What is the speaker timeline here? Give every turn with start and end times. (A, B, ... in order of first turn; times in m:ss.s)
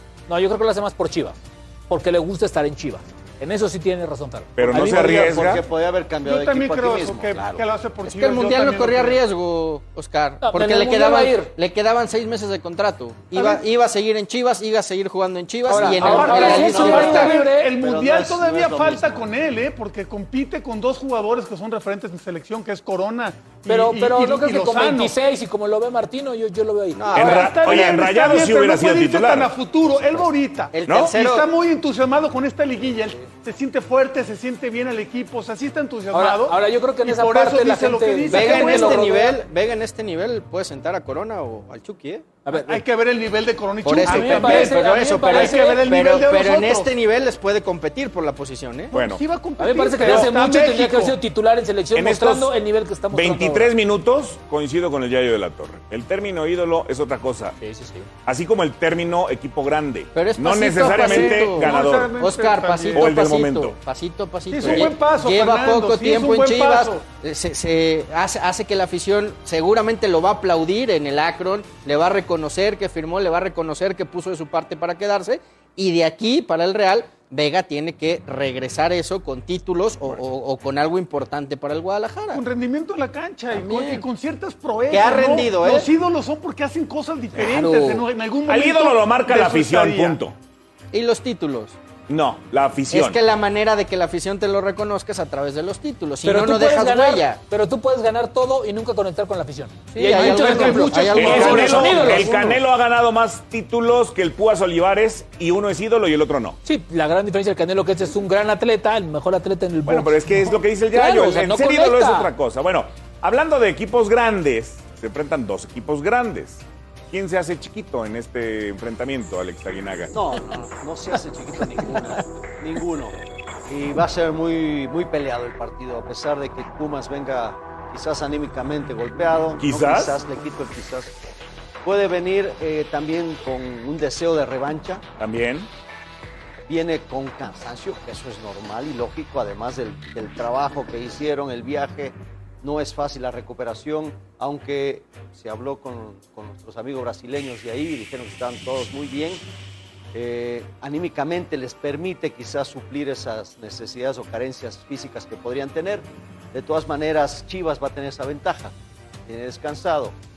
0:00.3-0:05.4 A
0:04.6-0:05.6 B
0:04.6-0:07.4 C
0:06.2-0:09.2 D
0:07.3-0:07.6 A
0:08.0-0:17.4 E
0:10.4-0:11.5 A
0:13.4-0:13.6 D
0:15.7-0:17.7 A
0:15.7-0:25.2 D
0:16.2-0:19.3 C
0:23.7-0:27.2 A
0:27.0-0:28.0 E
0:27.2-0:29.5 B
0:27.2-0:39.3 D
0:30.7-0:31.5 E
0:30.9-0:31.2 B
0:36.1-0:39.3 A
0:38.3-0:42.3 E
0:42.5-0:42.8 A
0:42.5-0:46.9 D
0:43.8-0:48.9 E
0:44.0-0:45.8 A
0:48.9-0:51.2 D
0:48.9-0:49.2 B
0:49.6-0:53.7 A
0:52.0-0:52.6 B
0:53.1-0:57.6 B
0:57.6-0:58.1 A
0:58.3-1:02.2 B
1:00.1-1:22.4 E
1:00.8-1:03.2 D
1:02.9-1:03.8 B
1:04.5-1:07.0 D
1:04.6-1:04.9 B
1:22.3-1:30.2 D
1:23.5-1:24.1 E
1:24.9-1:25.9 E
1:27.4-1:28.1 A
1:28.5-1:30.4 B
1:30.9-1:31.8 E
1:32.1-1:33.2 B
1:32.9-1:37.4 E
1:36.2-1:42.4 A
1:39.9-1:42.4 E
1:40.1-1:42.3 D
1:41.2-1:46.6 B
1:46.6-1:52.3 A
1:49.9-2:00.1 B
2:00.1-2:03.2 C
2:03.7-2:11.2 C
2:09.6-2:10.1 B
2:11.8-2:15.0 C
2:15.2-2:15.7 B
2:16.6-2:29.4 C
2:30.1-2:38.8 C
2:39.3-2:40.2 C